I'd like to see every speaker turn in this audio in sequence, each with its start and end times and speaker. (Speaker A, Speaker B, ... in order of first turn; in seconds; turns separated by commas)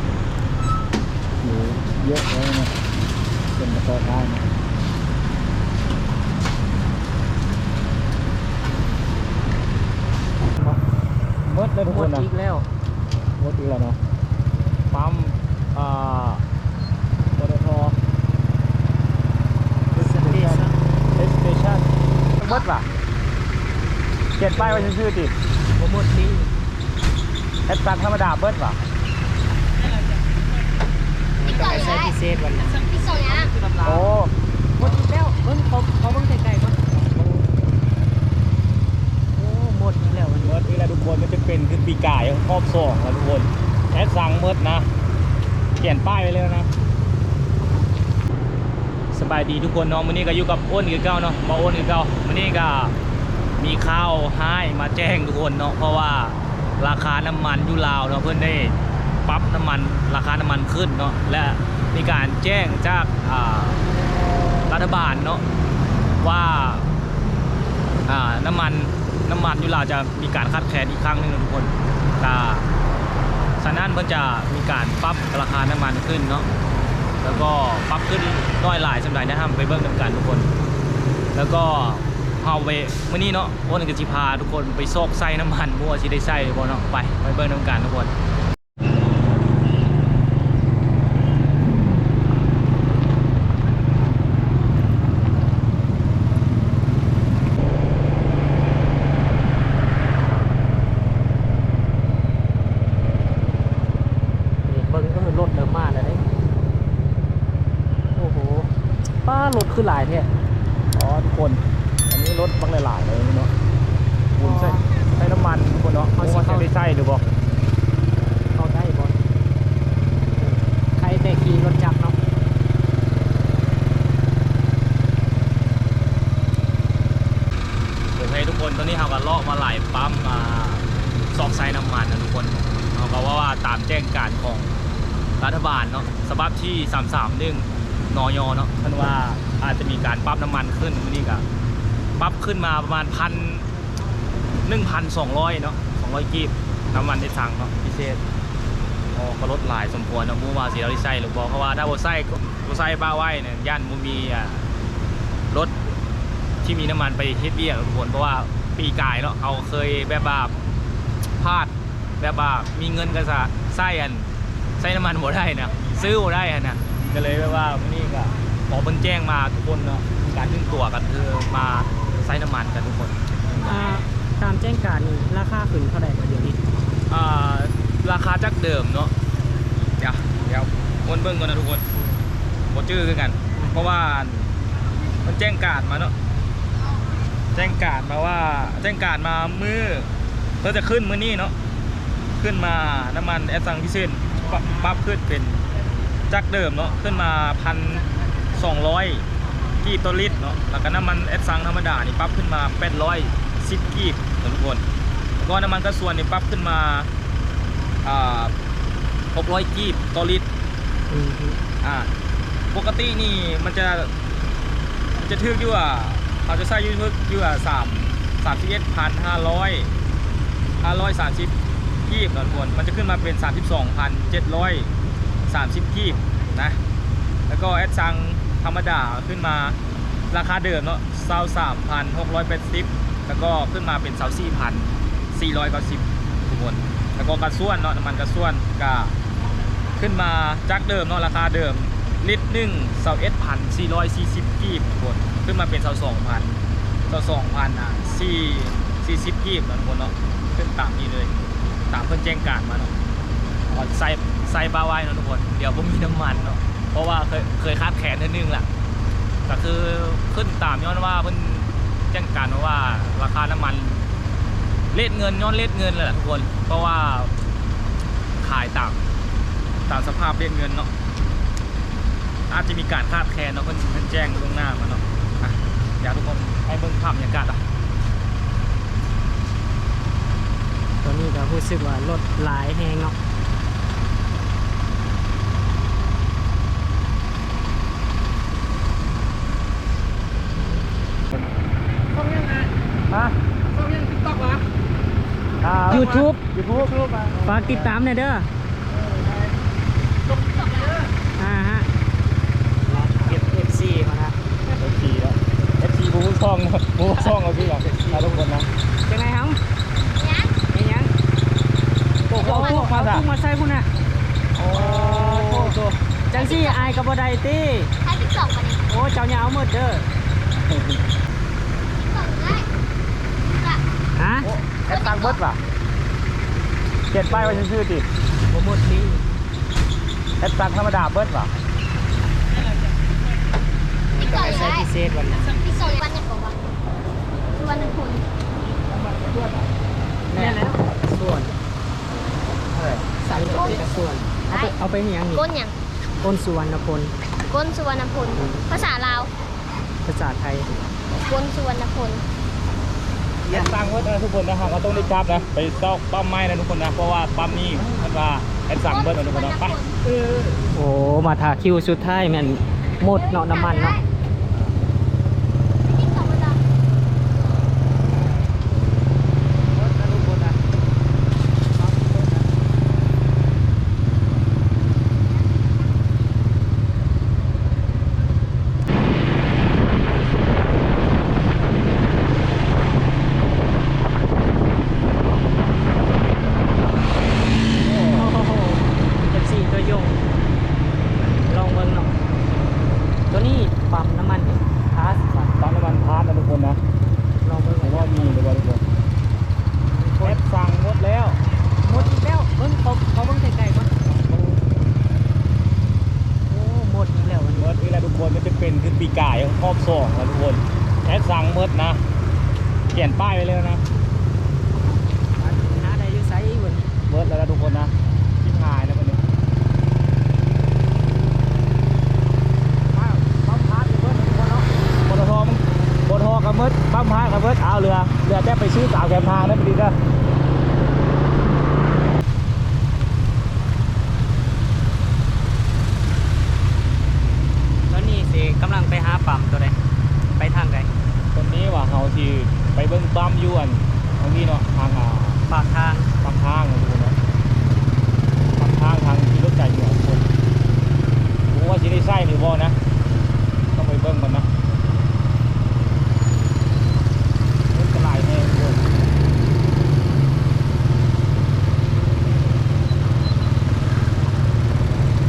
Speaker A: 1.4-2.7, Speaker A: 3.6-4.5, Speaker A: 11.4-12.2, Speaker B: 11.9-12.6, Speaker A: 13.4-14.0, Speaker A: 14.9-16.4, Speaker A: 17.4-18.0, Speaker B: 19.9-20.7, Speaker A: 20.0-20.6, Speaker A: 21.2-22.9, Speaker A: 24.4-25.3, Speaker B: 24.5-24.9, Speaker B: 25.8-26.5, Speaker A: 27.7-28.8, Speaker B: 31.4-32.9, Speaker C: 31.4-32.1, Speaker C: 32.9-33.5, Speaker B: 33.7-34.0, Speaker A: 33.8-34.3, Speaker B: 34.8-37.0, Speaker B: 39.4-40.6, Speaker A: 40.4-44.9, Speaker A: 45.8-46.7, Speaker A: 49.1-52.9, Speaker A: 53.6-63.8, Speaker A: 64.7-65.4, Speaker A: 66.2-66.9, Speaker A: 68.1-72.7, Speaker A: 73.6-76.5, Speaker A: 77.2-80.5, Speaker A: 81.3-88.1, Speaker B: 104.7-106.2, Speaker B: 108.1-108.7, Speaker B: 109.2-110.3, Speaker A: 110.9-113.5, Speaker A: 114.4-117.2, Speaker B: 114.4-114.8, Speaker B: 116.1-116.7, Speaker B: 118.5-119.2, Speaker B: 120.4-122.2, Speaker A: 128.2-134.7, Speaker A: 135.4-141.4, Speaker A: 142.2-143.7, Speaker A: 144.6-148.2, Speaker A: 149.1-154.6, Speaker A: 156.6-160.5, Speaker A: 161.4-173.8, Speaker B: 173.6-176.6, Speaker A: 177.1-179.1, Speaker A: 180.0-181.8, Speaker A: 182.7-184.5, Speaker A: 185.2-186.1, Speaker A: 187.5-190.1, Speaker A: 190.6-191.5, Speaker A: 192.4-195.7, Speaker A: 196.3-199.2, Speaker A: 199.8-204.8, Speaker A: 205.4-207.1, Speaker A: 208.0-208.5, Speaker A: 209.3-210.4, Speaker B: 211.1-211.6, Speaker A: 211.8-212.1, Speaker A: 212.7-214.1, Speaker A: 215.2-219.9, Speaker A: 220.8-221.5, Speaker A: 222.1-224.9, Speaker A: 225.5-226.8, Speaker A: 227.5-229.8, Speaker A: 230.3-239.1, Speaker A: 239.9-246.6, Speaker A: 247.1-251.3, Speaker A: 251.9-252.9, Speaker A: 253.7-258.7, Speaker A: 259.4-264.0, Speaker A: 264.9-267.3, Speaker A: 268.4-269.0, Speaker A: 269.9-270.9, Speaker A: 272.5-277.6, Speaker B: 281.0-283.1, Speaker A: 293.1-293.4, Speaker A: 295.6-297.0, Speaker B: 295.9-296.4, Speaker B: 297.3-298.5, Speaker C: 300.4-301.0, Speaker B: 301.4-301.9, Speaker B: 302.9-304.4, Speaker A: 304.8-308.7, Speaker B: 307.1-308.4, Speaker B: 309.1-309.6, Speaker C: 310.1-310.6, Speaker B: 310.6-311.1, Speaker A: 312.3-313.2, Speaker B: 312.3-313.9, Speaker C: 312.4-312.8, Speaker A: 314.5-315.8, Speaker B: 314.7-317.9, Speaker C: 316.3-317.0, Speaker C: 318.0-318.8, Speaker B: 318.9-320.1, Speaker A: 320.7-321.0, Speaker C: 321.9-322.7, Speaker C: 323.5-323.8, Speaker B: 324.1-324.5, Speaker A: 324.4-325.6, Speaker C: 324.9-325.4, Speaker A: 327.1-328.1, Speaker B: 327.3-327.6, Speaker B: 328.5-329.2, Speaker A: 330.4-331.5, Speaker B: 334.1-335.6, Speaker C: 334.2-334.8, Speaker C: 335.6-336.6, Speaker C: 337.5-338.2, Speaker B: 340.3-341.5, Speaker B: 343.1-345.5, Speaker C: 345.3-345.7, Speaker B: 346.2-347.1, Speaker C: 347.5-349.3, Speaker B: 350.0-350.7, Speaker C: 351.1-352.2, Speaker A: 353.5-359.8, Speaker C: 358.9-359.9, Speaker B: 360.1-364.0, Speaker C: 363.0-364.0, Speaker C: 365.8-366.6, Speaker B: 369.8-370.6, Speaker B: 371.8-372.4, Speaker A: 387.8-388.3, Speaker B: 388.1-390.2, Speaker B: 391.5-392.1, Speaker B: 393.3-395.6, Speaker A: 395.6-396.8, Speaker B: 397.4-398.4, Speaker A: 397.8-398.8, Speaker B: 399.9-400.4, Speaker A: 400.2-401.4, Speaker B: 401.8-404.1, Speaker B: 406.5-407.7, Speaker A: 407.6-412.0, Speaker A: 412.9-413.8, Speaker B: 415.4-416.9, Speaker A: 417.1-419.2, Speaker A: 422.9-429.9, Speaker B: 437.9-439.8, Speaker B: 440.4-440.9, Speaker A: 441.3-445.4, Speaker B: 445.5-446.1, Speaker A: 446.2-447.1, Speaker A: 448.6-450.2, Speaker A: 451.5-452.8, Speaker A: 453.7-454.5, Speaker A: 457.7-458.8